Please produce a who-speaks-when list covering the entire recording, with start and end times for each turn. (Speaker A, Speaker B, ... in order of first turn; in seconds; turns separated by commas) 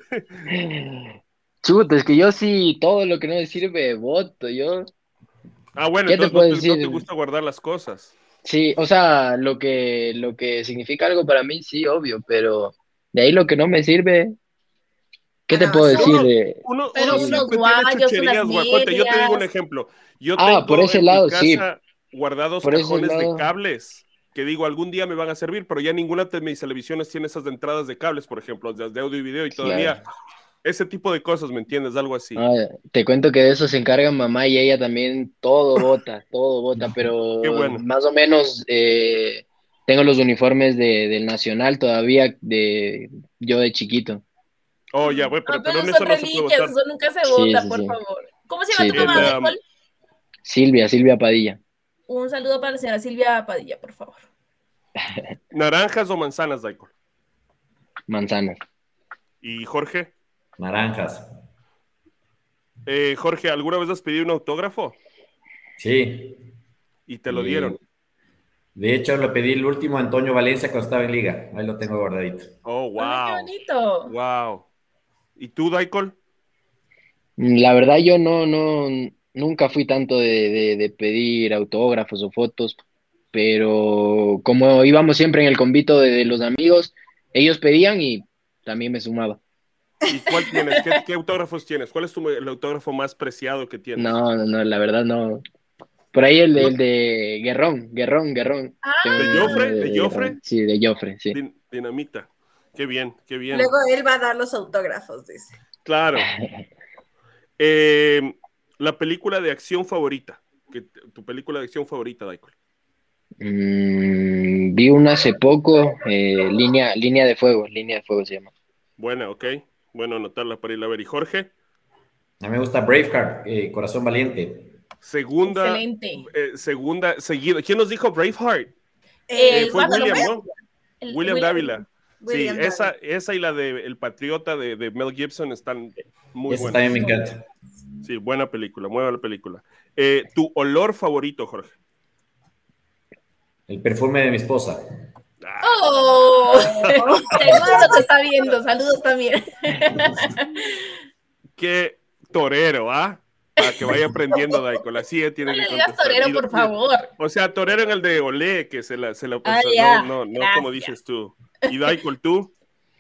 Speaker A: 0.5-4.9, Speaker B: 5.8-8.2, Speaker A: 6.1-7.0, Speaker A: 8.4-14.3, Speaker A: 15.5-17.4, Speaker C: 15.5-16.3, Speaker B: 15.9-30.0, Speaker D: 16.9-19.5, Speaker A: 20.4-21.7, Speaker A: 22.6-23.5, Speaker A: 29.5-30.0, Speaker B: 30.6-32.4, Speaker A: 32.4-44.2, Speaker B: 37.4-37.8, Speaker B: 44.9-46.8, Speaker D: 45.5-49.6, Speaker A: 47.2-48.0, Speaker A: 48.7-49.3, Speaker B: 48.9-49.5, Speaker A: 50.4-51.6, Speaker D: 52.1-54.2, Speaker A: 55.0-55.3, Speaker B: 55.5-56.9, Speaker A: 58.1-58.6, Speaker B: 59.4-60.1, Speaker E: 60.6-61.3, Speaker B: 62.9-65.0, Speaker E: 65.8-66.4, Speaker B: 67.1-67.8, Speaker E: 67.3-67.8, Speaker E: 68.8-72.5, Speaker B: 72.7-73.5, Speaker D: 73.0-74.1, Speaker B: 74.1-74.7, Speaker B: 75.4-76.2, Speaker A: 77.4-82.8, Speaker A: 83.3-89.4, Speaker C: 90.0-91.0, Speaker B: 90.1-94.2, Speaker A: 94.0-95.4, Speaker A: 96.1-101.4, Speaker D: 98.8-99.7, Speaker B: 99.2-100.4, Speaker B: 101.3-103.7, Speaker C: 103.5-105.6, Speaker B: 105.8-106.3, Speaker A: 106.2-106.6, Speaker B: 107.6-112.5, Speaker A: 113.4-118.5, Speaker B: 119.0-121.5, Speaker E: 122.4-124.8, Speaker B: 125.0-128.7, Speaker D: 125.4-126.3, Speaker C: 129.3-130.4, Speaker D: 129.3-130.3, Speaker B: 129.5-130.4, Speaker D: 131.0-131.8, Speaker B: 131.1-137.1, Speaker C: 132.2-132.9, Speaker E: 136.5-137.4, Speaker B: 138.0-141.8, Speaker E: 143.7-144.8, Speaker B: 145.4-146.0, Speaker D: 145.6-150.9, Speaker B: 146.7-147.7, Speaker C: 146.9-148.1, Speaker B: 151.6-162.5, Speaker D: 153.7-154.4, Speaker D: 155.4-157.1, Speaker D: 159.4-160.9